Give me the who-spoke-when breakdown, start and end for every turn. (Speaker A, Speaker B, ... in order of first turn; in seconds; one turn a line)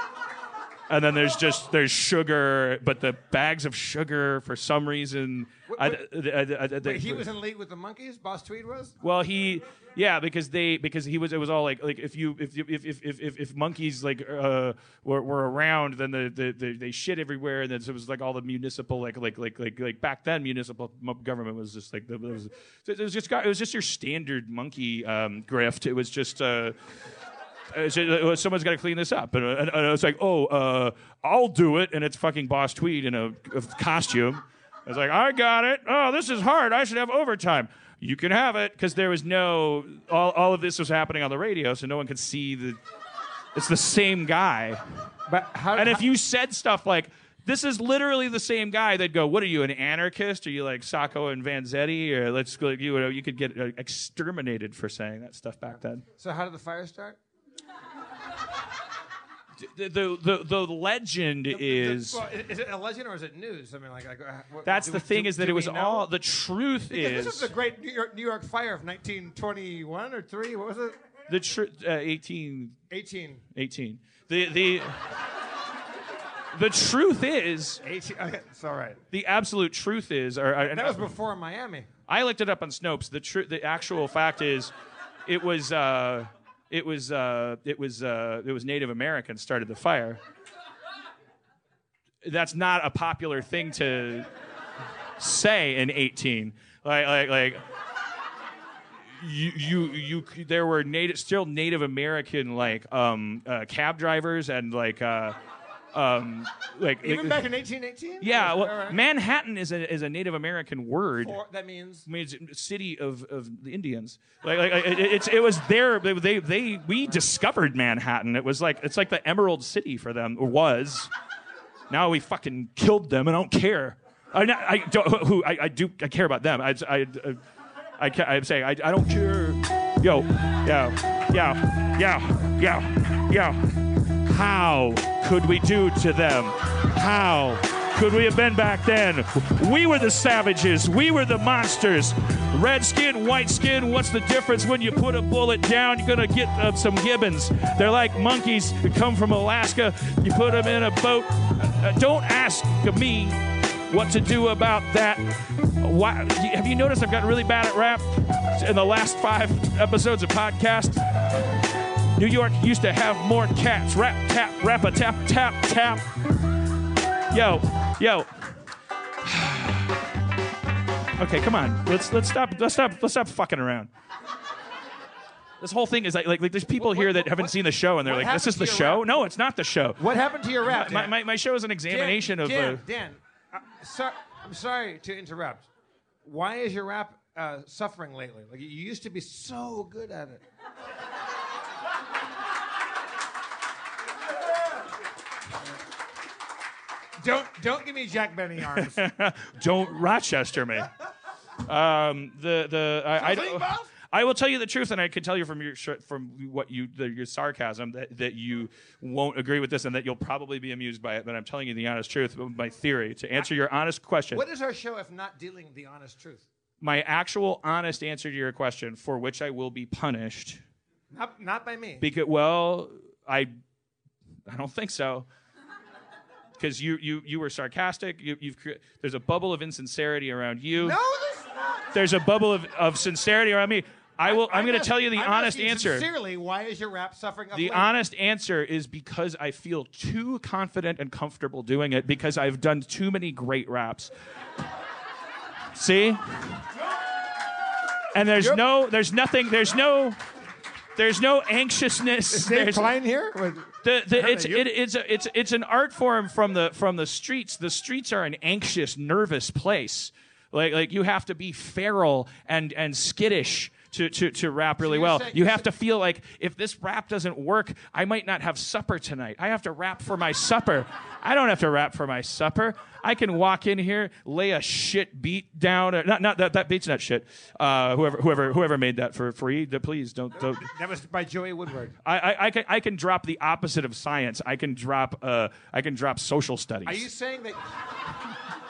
Speaker A: 0.9-7.3
Speaker B: 5.7-6.0
Speaker B: 6.8-8.9
Speaker A: 9.0-26.8
Speaker A: 27.7-42.8
Speaker A: 43.5-44.8
Speaker B: 45.3-46.1
Speaker A: 45.7-56.0
Speaker B: 56.2-57.2
Speaker A: 59.6-62.2
Speaker B: 61.5-66.1
Speaker A: 64.6-67.5
Speaker B: 66.9-71.0
Speaker A: 71.3-72.8
Speaker B: 72.9-73.4
Speaker A: 73.5-75.1
Speaker A: 76.5-77.8
Speaker B: 77.8-79.0
Speaker A: 79.1-81.1
Speaker B: 80.7-81.9
Speaker A: 82.1-84.7
Speaker A: 85.3-90.2
Speaker A: 92.2-94.3
Speaker A: 95.2-97.6
Speaker A: 99.2-105.4
Speaker A: 105.9-107.4
Speaker B: 107.0-109.0
Speaker A: 108.2-111.4
Speaker B: 111.2-112.1
Speaker A: 112.1-121.1
Speaker A: 121.9-127.4
Speaker A: 128.0-161.5
Speaker A: 162.1-166.2
Speaker A: 167.3-168.3
Speaker A: 169.2-169.9
Speaker A: 171.2-173.9
Speaker A: 175.6-180.0
Speaker B: 176.8-179.1
Speaker B: 180.0-181.2
Speaker A: 180.6-182.8
Speaker B: 181.9-185.7
Speaker B: 186.2-190.4
Speaker B: 197.2-199.1
Speaker A: 198.7-200.9
Speaker A: 201.6-214.4
Speaker B: 203.1-203.9
Speaker B: 214.3-216.4
Speaker A: 216.8-220.6
Speaker B: 221.1-222.1
Speaker A: 222.0-223.5
Speaker A: 224.5-225.3
Speaker A: 226.6-231.0
Speaker B: 230.8-231.9
Speaker A: 231.9-236.1
Speaker B: 234.2-237.9
Speaker A: 237.5-244.1
Speaker A: 245.8-246.6
Speaker A: 248.1-250.2
Speaker B: 248.4-248.6
Speaker A: 251.0-252.9
Speaker B: 252.3-254.7
Speaker A: 253.8-280.7
Speaker B: 264.8-265.7
Speaker B: 280.4-281.9
Speaker A: 282.0-287.1
Speaker B: 286.9-287.6